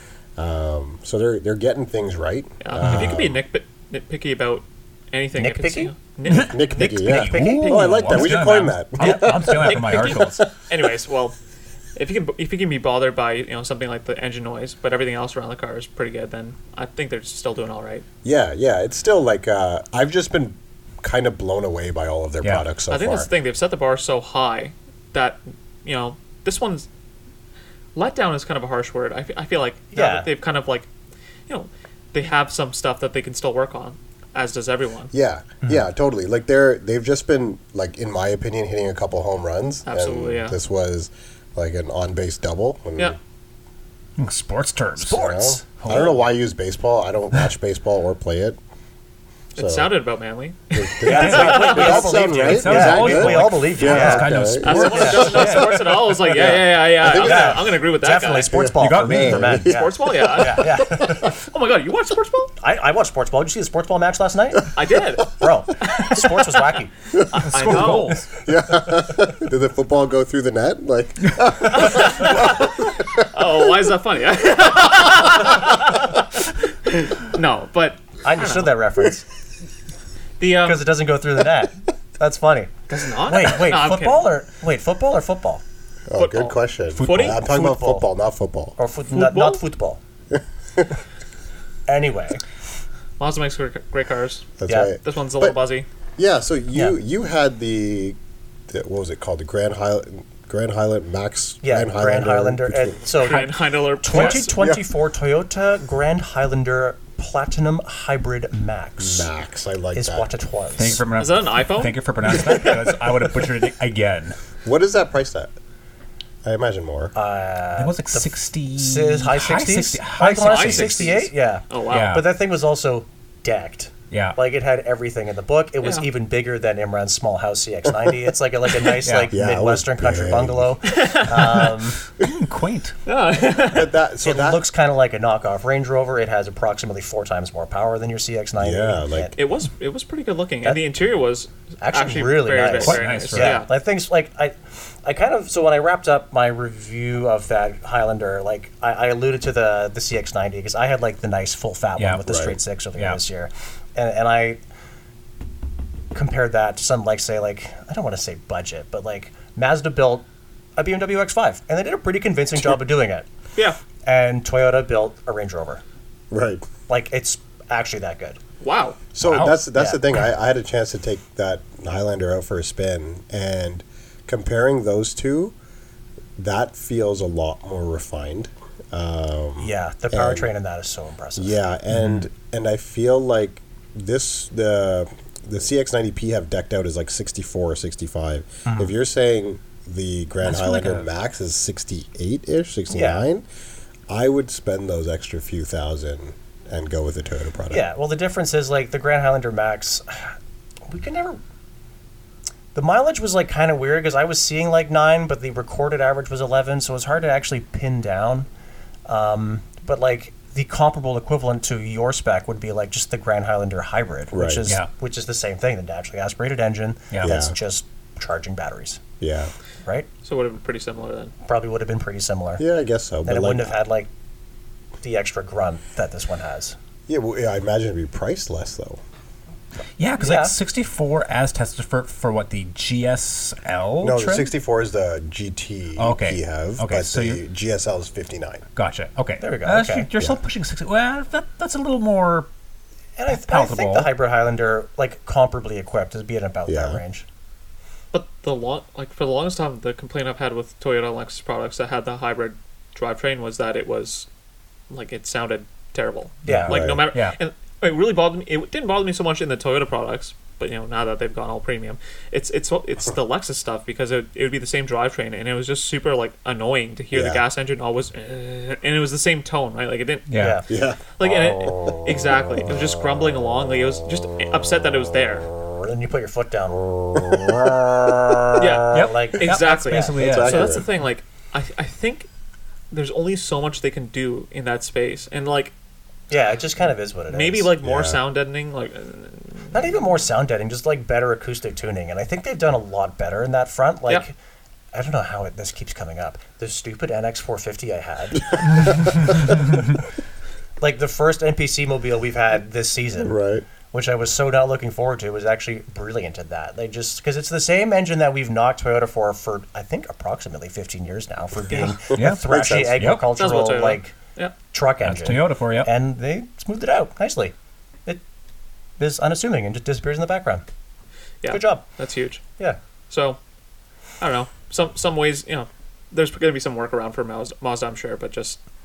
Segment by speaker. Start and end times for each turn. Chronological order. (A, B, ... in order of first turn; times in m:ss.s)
0:00.4-0:03.4 A
0:02.6-0:06.7 B
0:05.4-0:05.9 C
0:06.2-0:10.8 A
0:06.3-0:10.4 D
0:06.6-0:08.4 C
0:09.0-0:10.4 C
0:10.7-0:11.4 B
0:12.0-0:18.0 B
0:18.2-0:23.3 A
0:22.9-0:26.9 B
0:28.0-0:30.9 B
0:29.9-0:30.3 C
0:31.5-0:35.1 B
0:35.1-0:43.2 A
0:39.9-0:40.6 B
0:44.2-0:45.2 D
0:45.0-0:46.2 C
0:45.1-0:48.6 A
0:45.8-0:46.2 D
0:49.5-0:52.1 B
0:49.6-0:50.0 A
0:50.7-0:55.7 A
0:51.0-1:01.4 C
0:51.1-0:55.7 D
0:54.6-0:58.6 B
0:56.3-0:57.8 A
0:58.5-1:00.1 A
0:58.8-0:59.7 D
0:59.7-1:02.5 B
1:02.6-1:04.7 C
1:04.8-1:06.8 B
1:05.3-1:06.9 C
1:07.1-1:13.4 A
1:07.3-1:08.2 B
1:07.5-1:08.3 D
1:07.6-1:08.2 C
1:11.8-1:18.8 B
1:18.2-1:19.2 C
1:20.4-1:20.9 B
1:20.6-1:25.6 C
1:22.9-1:24.3 B
1:26.1-1:28.8 A
1:26.2-1:27.4 B
1:26.9-1:27.4 D
1:27.3-1:28.0 C
1:28.8-1:30.0 C
1:29.1-1:29.6 B
1:30.3-1:30.9 A
1:31.9-1:32.4 C
1:33.2-1:35.9 B
1:34.6-1:35.6 A
1:34.7-1:35.0 C
1:36.2-1:38.2 A
1:38.7-1:43.1 A
1:41.6-1:49.3 C
1:43.1-1:44.6 B
1:44.1-1:44.4 D
1:44.5-1:44.8 A
1:49.0-1:50.3 A
1:49.9-1:51.0 C
1:50.8-1:54.4 D
1:51.2-1:53.0 B
1:54.6-1:55.5 A
1:56.4-1:57.1 A
1:57.2-2:12.0 C
1:57.8-2:01.3 D
2:00.2-2:02.2 B
2:01.9-2:02.3 D
2:04.1-2:04.4 D
2:05.8-2:06.1 B
2:09.0-2:09.4 D
2:09.3-2:10.8 A
2:10.9-2:11.8 B
2:12.2-2:13.0 D
2:13.1-2:14.0 B
2:13.7-2:14.6 A
2:14.2-2:19.4 C
2:18.6-2:19.4 A
2:19.4-2:23.7 B
2:21.8-2:34.6 C
2:22.8-2:23.6 D
2:32.0-2:32.2 D
2:32.3-2:32.6 A
2:33.0-2:33.2 D
2:36.1-2:43.3 C
2:43.6-2:43.8 B
2:44.0-2:45.8 C
2:46.3-2:46.7 A
2:46.9-2:48.4 C
2:48.6-2:49.0 B
2:49.1-2:55.6 A
2:49.2-2:49.7 D
2:49.7-2:50.0 C
2:56.4-3:00.5 A
2:59.6-3:01.6 C
3:01.4-3:13.4 A
3:01.9-3:02.3 D
3:08.7-3:08.9 C
3:10.4-3:11.1 D
3:12.9-3:13.2 C
3:14.1-3:17.8 A
3:17.7-3:20.3 C
3:20.9-3:21.4 C
3:22.7-3:28.5 C
3:29.1-3:39.0 C
3:34.3-3:34.7 A
3:37.2-3:37.6 A
3:39.2-3:39.5 A
3:40.2-3:41.3 B
3:41.4-3:42.6 C
3:42.6-3:43.8 A
3:43.3-3:44.1 C
3:45.0-3:46.8 C
3:47.1-3:49.0 A
3:50.0-3:54.5 D
3:50.2-3:50.6 C
3:54.0-3:58.6 A
3:56.0-3:57.4 D
3:58.8-4:02.5 D
3:59.4-4:00.1 C
4:03.2-4:07.2 C
4:03.3-4:04.1 D
4:06.7-4:07.0 A
4:08.1-4:14.3 B
4:14.9-4:30.6 B
4:16.5-4:16.8 C
4:16.5-4:17.1 A
4:16.5-4:17.4 D
4:27.1-4:27.4 A
4:30.3-4:30.6 D
4:30.4-4:30.7 C
4:30.7-4:33.7 A
4:31.2-4:35.5 B
4:35.6-4:40.2 C
4:37.1-4:38.6 A
4:38.6-4:42.3 B
4:38.9-4:40.8 D
4:40.2-4:40.9 A
4:42.9-4:45.7 B
4:46.3-4:47.7 C
4:47.3-4:50.0 B
4:47.8-4:48.2 A
4:49.7-4:54.4 C
4:54.9-4:59.8 C
5:00.8-5:03.4 C
5:03.2-5:03.7 A
5:03.9-5:14.1 C
5:12.1-5:13.2 A
5:12.1-5:13.3 D
5:13.3-5:14.6 B
5:14.7-5:17.5 C
5:15.0-5:15.9 D
5:19.0-5:20.6 C
5:21.4-5:22.4 B
5:21.5-5:21.8 C
5:23.1-5:23.4 B
5:24.2-5:28.6 B